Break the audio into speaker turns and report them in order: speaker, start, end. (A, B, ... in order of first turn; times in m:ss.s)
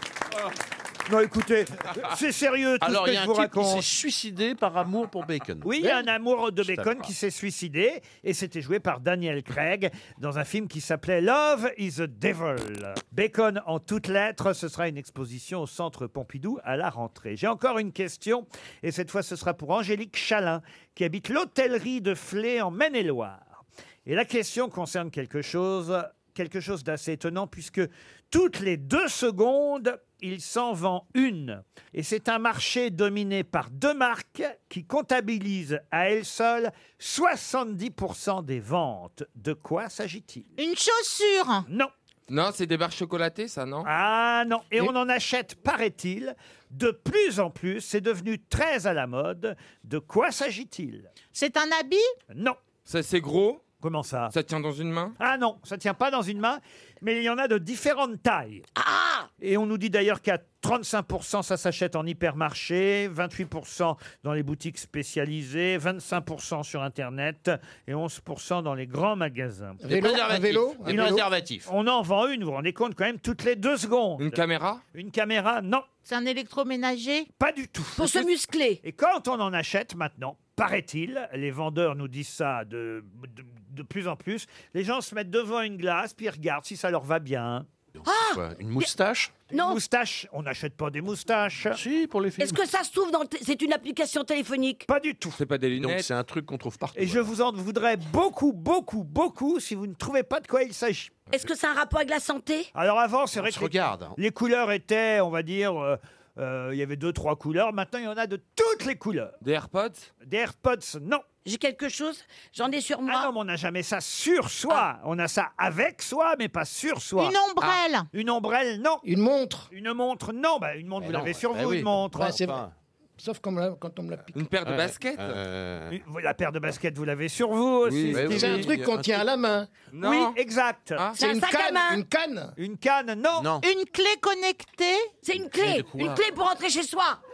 0:01.1-0:03.8 A
0:02.8-0:05.8 B
0:05.6-0:40.5 A
0:06.6-0:07.1 B
0:40.6-0:41.7 C
0:42.3-0:43.9 D
0:43.8-0:51.1 A
0:51.3-0:52.1 C
0:52.3-0:52.6 A
0:52.8-0:53.6 D
0:53.8-0:54.3 A
0:54.3-0:55.1 D
0:55.2-0:58.6 A
0:58.8-0:59.3 E
0:59.4-1:10.0 A
1:09.8-1:11.3 F
1:09.9-1:11.7 B
1:10.9-1:14.4 A
1:14.2-1:14.8 D
1:14.9-1:15.8 A
1:16.0-1:17.3 C
1:17.4-1:18.3 A
1:18.0-1:18.8 E
1:18.8-1:27.7 A
1:28.0-1:29.3 B
1:28.0-1:28.9 E
1:29.5-1:29.8 E
1:29.5-1:31.8 A
1:31.7-1:32.6 B
1:32.4-1:34.8 E
1:34.9-1:35.4 A
1:35.4-1:36.1 D
1:35.8-1:37.3 B
1:37.0-1:41.1 A
1:41.3-1:42.7 E
1:42.7-1:49.3 A
1:43.3-1:44.2 B
1:49.4-1:50.1 D
1:50.2-1:51.2 A
1:51.4-1:53.3 E
1:53.0-1:57.4 A
1:57.2-1:58.1 C
1:58.1-1:59.0 A
1:59.0-1:59.7 F
1:59.7-2:02.4 A
2:01.0-2:02.7 B
2:02.1-2:02.6 F
2:03.2-2:04.4 F
2:04.3-2:05.3 D
2:04.6-2:06.0 B
2:05.9-2:08.4 A
2:07.8-2:08.7 D
2:08.1-2:09.2 B
2:08.2-2:09.7 F
2:09.9-2:10.4 D
2:10.0-2:11.0 A
2:11.2-2:12.0 E
2:11.2-2:12.5 F
2:12.6-2:13.5 A
2:13.4-2:13.6 B
2:13.6-2:15.1 C
2:15.2-2:17.2 E
2:15.4-2:16.2 B